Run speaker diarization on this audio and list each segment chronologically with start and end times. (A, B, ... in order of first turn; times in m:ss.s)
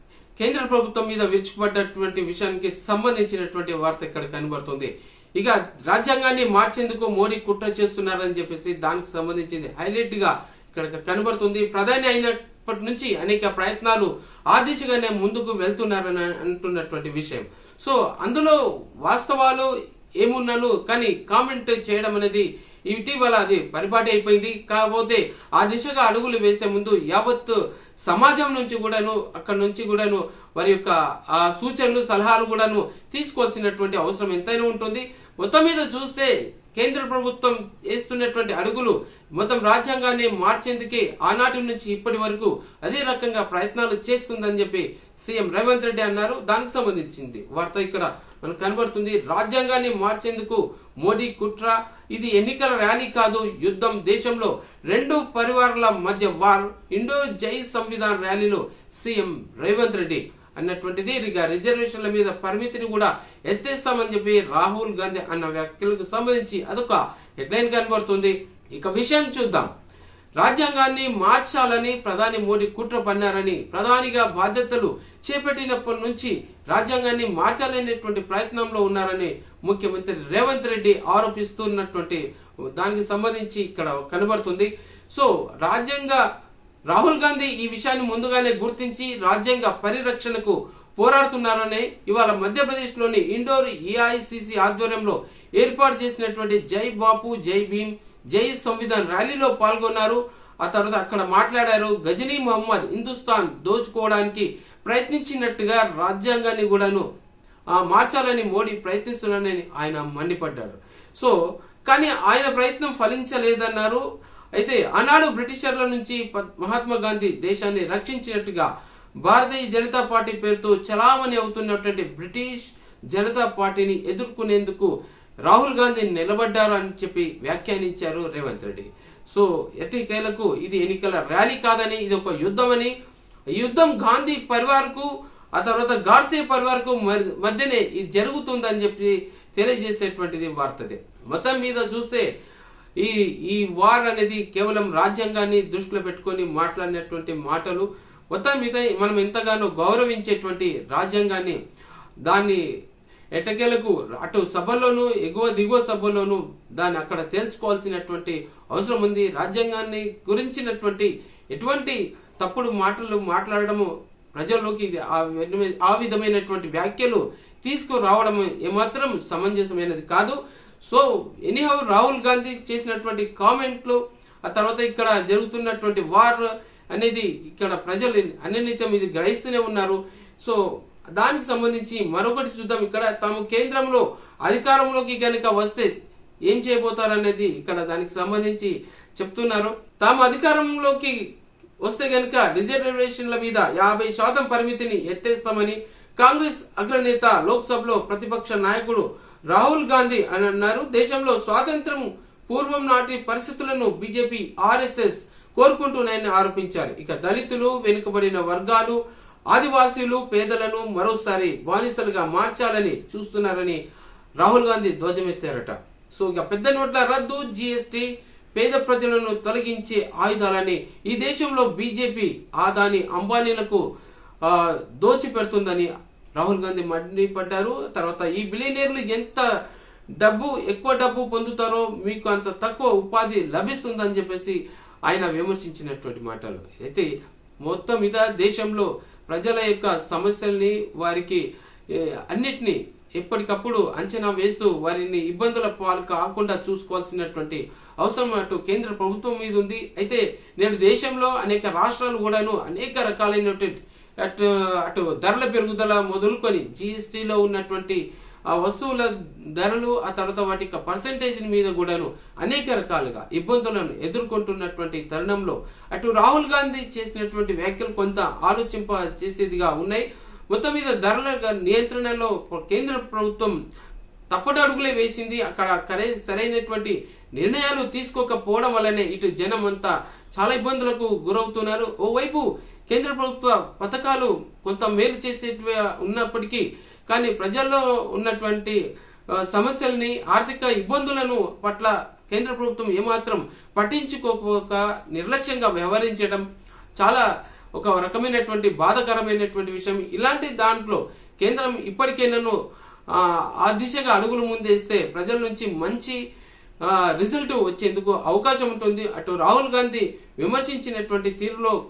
0:00.4-0:19.7 A
0:20.2-1:09.7 A
1:10.4-1:26.2 A
1:26.9-1:47.0 A
1:47.7-1:51.4 A
1:51.9-1:54.0 A
1:54.6-1:58.7 A
1:59.2-2:04.9 A
2:05.4-2:12.9 A
2:13.5-2:22.2 A
2:23.0-2:31.6 A
2:32.2-2:32.6 A
2:33.3-3:00.6 A
3:01.2-3:05.9 A
3:06.5-3:11.2 A
3:11.8-3:29.0 A
3:29.5-3:33.8 A
3:34.4-3:43.8 A
3:44.4-3:49.4 A
3:50.2-3:57.1 A
3:57.6-4:33.5 A
4:34.3-4:48.8 A
4:49.4-4:56.4 A
4:57.0-5:02.5 A
5:03.1-5:06.2 A
5:06.8-5:11.8 A